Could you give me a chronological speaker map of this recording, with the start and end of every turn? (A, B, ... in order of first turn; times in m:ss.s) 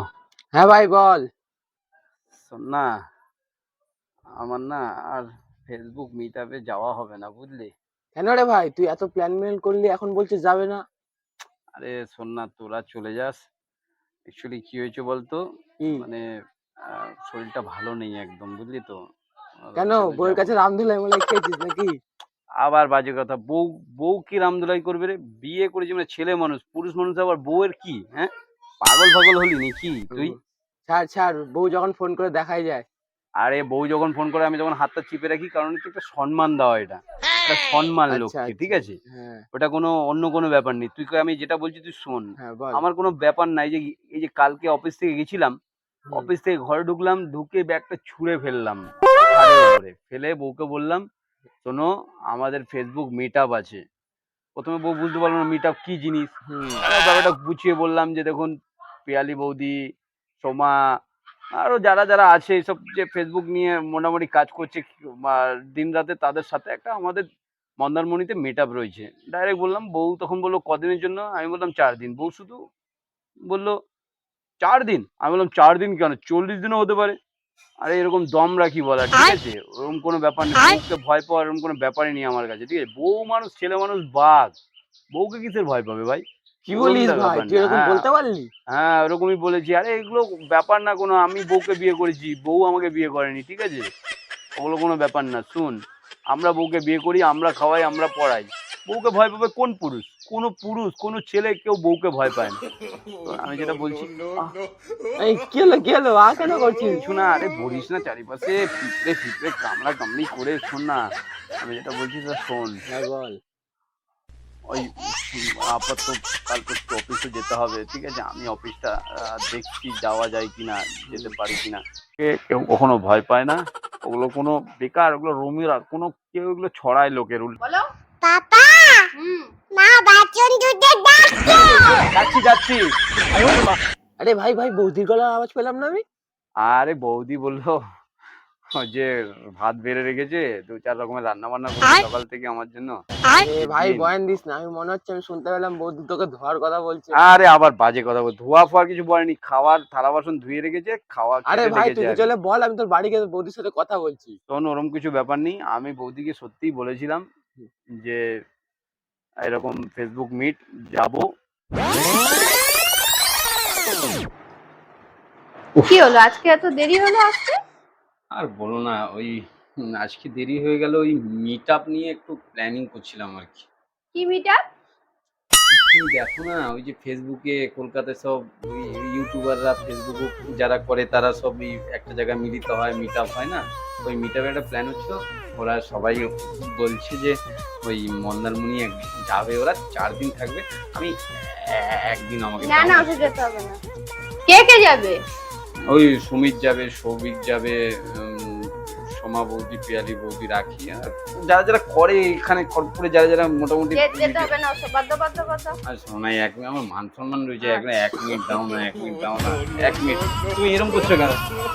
0:00.5-0:01.2 A
0:02.4-0:02.9 B
0:04.4-0:07.7 B
0:08.2-0:10.8 A
0:11.8-0:13.4 B
0:14.3-0:15.4 B
0:15.8-0:16.1 A
0:16.0-0:16.2 B
0:16.9-0:19.0 B
0:19.7-0:20.5 B
0:19.8-0:22.0 A
0:22.6-0:28.3 B
0:28.8-0:30.3 B
0:30.1-0:32.8 A
0:33.4-0:39.0 B
0:38.1-0:39.4 A
0:39.5-0:45.6 B
0:42.4-0:42.8 A
0:46.1-0:51.0 B
0:51.6-0:53.8 B
0:54.6-0:56.3 B
0:56.5-0:56.8 A
0:56.8-0:58.5 B
0:59.1-0:59.8 B
1:00.4-1:00.7 B
1:01.6-1:07.2 B
1:07.8-1:12.6 B
1:13.5-1:13.8 B
1:14.6-1:17.2 B
1:17.8-1:24.5 B
1:25.2-1:26.2 B
1:26.6-1:28.5 A
1:26.8-1:27.9 B
1:28.7-1:33.9 B
1:34.6-1:35.8 B
1:36.3-1:42.6 B
1:43.3-1:44.5 B
1:45.2-1:47.0 A
1:46.7-1:51.0 B
1:51.6-1:52.8 B
1:52.9-1:53.4 A
1:54.7-2:07.6 B
2:07.6-2:07.9 C
2:08.2-2:09.0 D
2:09.2-2:09.5 C
2:09.7-2:11.2 D
2:11.4-2:13.6 B
2:14.2-2:16.0 A
2:16.6-2:17.8 B
2:18.8-2:23.0 B
2:23.4-2:27.2 A
2:23.6-2:24.1 B
2:27.2-2:32.3 B
2:31.5-2:34.4 A
2:34.5-2:37.2 B
2:39.5-2:41.3 B
2:45.9-2:47.6 C
2:48.3-2:53.7 B
2:54.1-2:54.6 C
2:55.7-3:13.3 B
3:12.6-3:13.8 C
3:14.5-3:15.2 C
3:15.9-3:24.5 B
3:24.0-3:25.8 C
3:25.9-3:31.4 B